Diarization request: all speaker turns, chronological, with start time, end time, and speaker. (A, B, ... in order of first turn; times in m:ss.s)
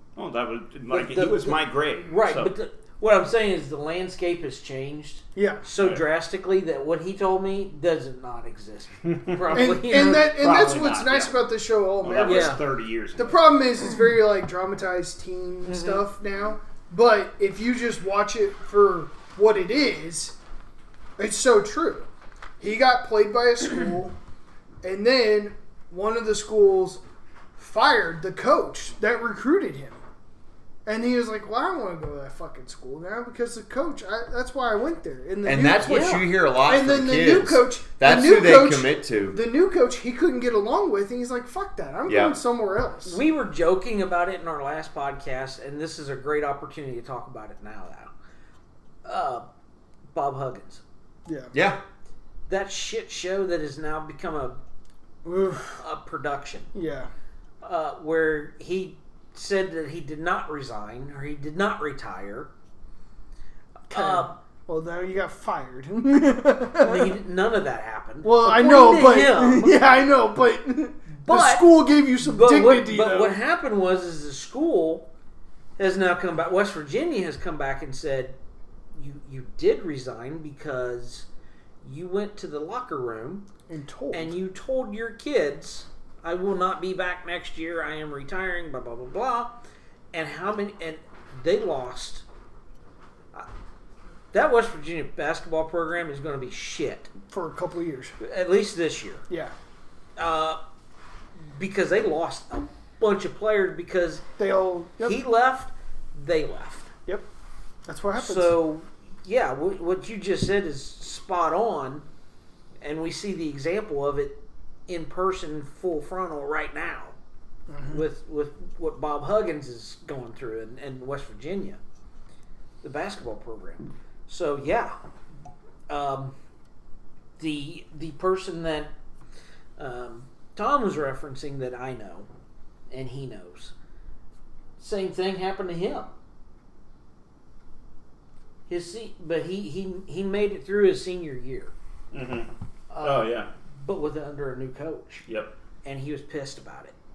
0:00.2-0:02.5 A
0:00.9-0:10.4 B
0:05.4-0:05.6 C
0:05.8-0:06.0 A
0:09.0-0:11.4 A
0:09.5-0:12.6 C
0:12.0-0:13.4 A
0:12.2-0:12.6 B
0:13.2-0:20.4 C
0:15.6-0:16.0 B
0:21.2-0:22.1 C
0:22.6-0:24.2 C
0:24.8-0:27.0 C
0:27.6-0:30.0 C
0:30.8-0:43.2 C
0:35.4-0:39.4 D
0:35.8-0:36.2 B
0:42.1-0:42.4 D
0:43.0-0:48.1 B
0:49.0-0:49.4 B
0:50.1-0:50.8 B
0:51.2-0:51.5 C
0:51.5-0:51.8 D
0:52.5-0:54.6 B
0:55.2-0:55.8 C
0:55.7-0:56.7 B
0:56.7-0:57.1 C
0:57.6-1:02.5 B
1:03.9-1:04.4 B
1:03.9-1:07.2 C
1:06.8-1:09.9 B
1:08.2-1:13.4 C
1:11.2-1:15.1 B
1:15.8-1:18.4 B
1:18.9-1:21.3 B
1:21.8-1:23.5 B
1:23.7-1:24.3 C
1:24.1-1:29.6 B
1:30.1-1:32.2 B
1:34.3-1:37.1 B
1:37.3-1:38.1 C
1:38.2-1:39.2 B
1:39.3-1:39.5 C
1:40.2-1:40.6 B
1:41.5-1:44.2 B
1:44.4-1:45.2 C
1:45.0-1:46.9 B
1:47.8-1:48.6 C
1:48.2-1:52.0 B
1:52.8-1:57.1 B
1:57.7-1:58.0 C
1:57.9-2:01.8 B
2:02.8-2:04.9 B
2:05.9-2:06.3 B
2:07.4-2:08.9 B
2:09.8-2:12.3 B
2:12.9-2:13.7 B
2:14.8-2:16.1 B
2:18.7-2:21.7 B
2:22.1-2:22.5 A
2:22.9-2:25.2 B
2:23.0-2:23.5 A
2:25.3-2:25.5 A
2:25.8-2:26.9 B